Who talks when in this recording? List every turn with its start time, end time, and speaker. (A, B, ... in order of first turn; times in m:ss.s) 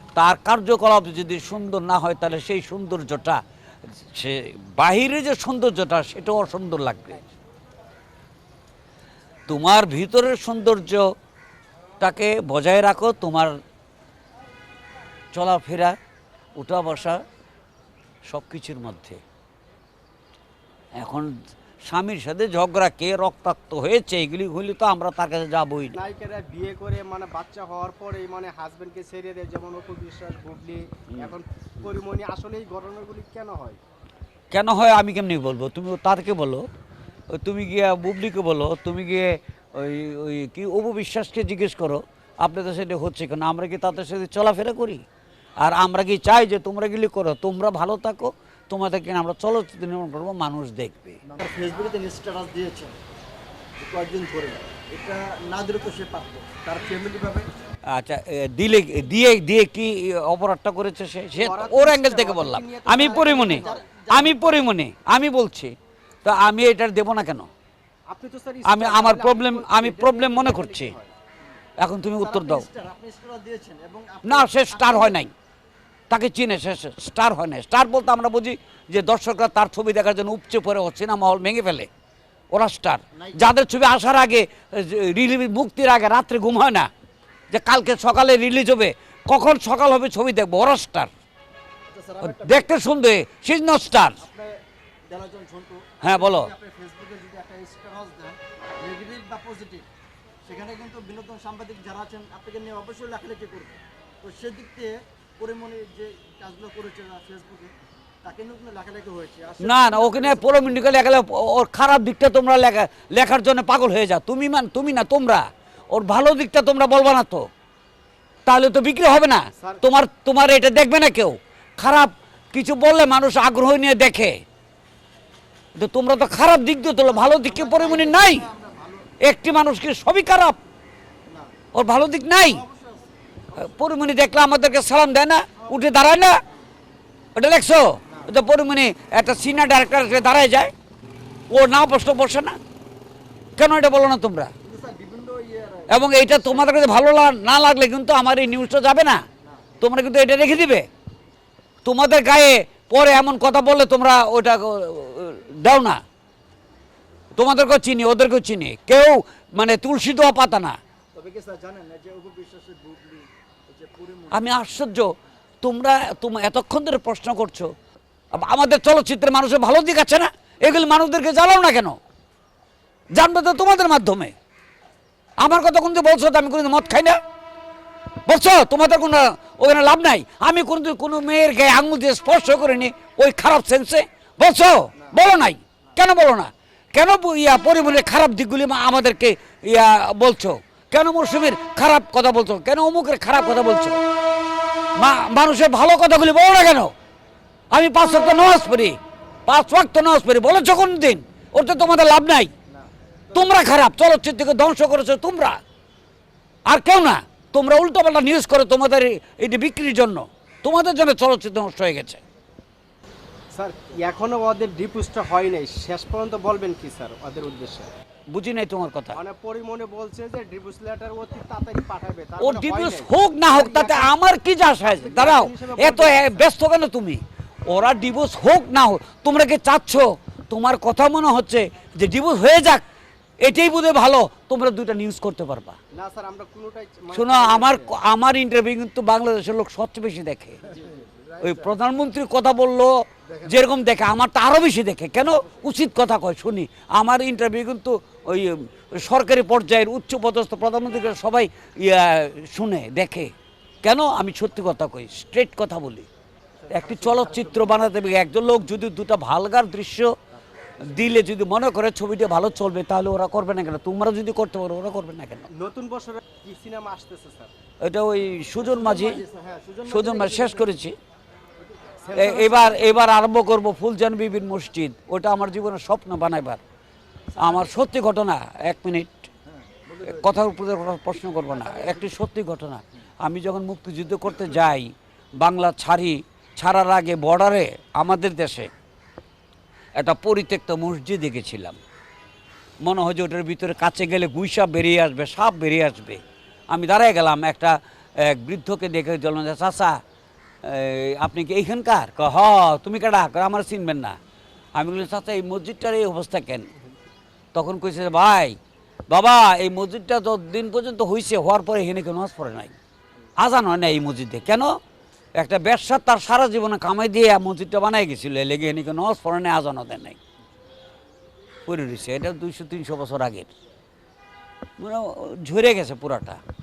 0:00.2-0:03.4 A
0:04.1-0:07.3 A
0:09.5-0:11.0 A
0:12.0-0:13.5 A
0:15.3-0:16.0 A
0:16.6-0:17.2 A
0:18.3-0:19.2 A
0:21.0-0:21.3 A
0:21.9-0:26.0 A
0:25.9-0:33.8 B
0:34.5-0:36.6 A
0:37.3-0:45.0 A
0:45.6-0:51.2 A
0:51.2-0:53.0 C
0:53.8-0:57.5 C
0:57.9-1:05.7 A
1:01.4-1:03.8 B
1:03.2-1:04.5 C
1:06.2-1:07.5 A
1:08.1-1:11.1 B
1:08.6-1:10.9 A
1:11.8-1:12.7 A
1:12.2-1:15.2 C
1:14.2-1:15.3 A
1:16.1-1:21.9 A
1:22.5-1:26.9 A
1:23.1-1:23.5 C
1:27.5-1:31.1 A
1:31.9-1:32.7 C
1:32.2-1:34.2 A
1:34.2-1:39.8 C
1:36.0-1:36.5 A
1:40.4-1:50.8 C
1:49.6-1:57.5 A
1:58.4-2:04.4 A
1:59.6-1:59.8 B
2:05.8-2:08.4 A
2:07.0-2:09.1 C
2:09.2-2:10.6 A
2:11.3-2:11.5 C
2:11.7-2:12.6 A
2:12.4-2:13.0 C
2:13.6-2:16.4 A
2:15.6-2:15.9 C
2:17.4-2:20.7 A
2:18.0-2:18.3 C
2:21.5-2:22.6 A
2:23.6-2:24.5 A
2:24.6-2:26.8 C
2:25.9-2:29.2 A
2:29.8-2:30.9 A
2:31.8-2:36.0 A
2:37.3-2:40.8 A
2:41.1-2:44.7 C
2:44.3-2:47.7 A
2:48.3-2:52.0 A
2:53.1-2:54.3 A
2:55.4-2:57.2 A
2:58.3-3:14.0 A
3:15.0-3:16.9 A
3:17.7-3:22.5 A
3:22.7-3:23.6 C
3:23.3-3:25.6 A
3:26.7-3:32.2 A
3:33.5-3:37.9 B
3:38.3-3:39.2 A
3:39.1-3:44.1 B
3:42.4-3:52.8 A
3:44.8-3:46.4 B
3:53.4-3:55.8 A
3:55.9-3:57.9 B
3:57.1-4:00.6 A
4:00.7-4:01.0 C
4:01.4-4:13.3 A
4:13.8-4:16.1 A
4:16.6-4:17.8 C
4:16.7-4:20.1 A
4:20.8-4:25.5 A
4:25.5-4:27.5 B
4:27.8-4:29.2 A
4:28.6-4:30.8 C
4:29.8-4:30.9 A
4:32.0-4:33.0 B
4:32.1-4:36.6 A
4:37.3-4:37.7 C
4:37.4-4:39.3 A
4:39.5-4:40.4 C
4:40.0-4:48.7 A
4:41.6-4:42.0 C
4:50.0-4:51.8 A
4:52.8-5:00.0 A
5:00.6-5:04.2 A
5:04.7-5:06.7 A
5:07.5-5:08.6 A
5:09.1-5:12.7 A
5:13.4-5:14.7 A
5:15.4-5:20.2 A
5:21.7-5:23.5 A
5:24.8-5:26.4 A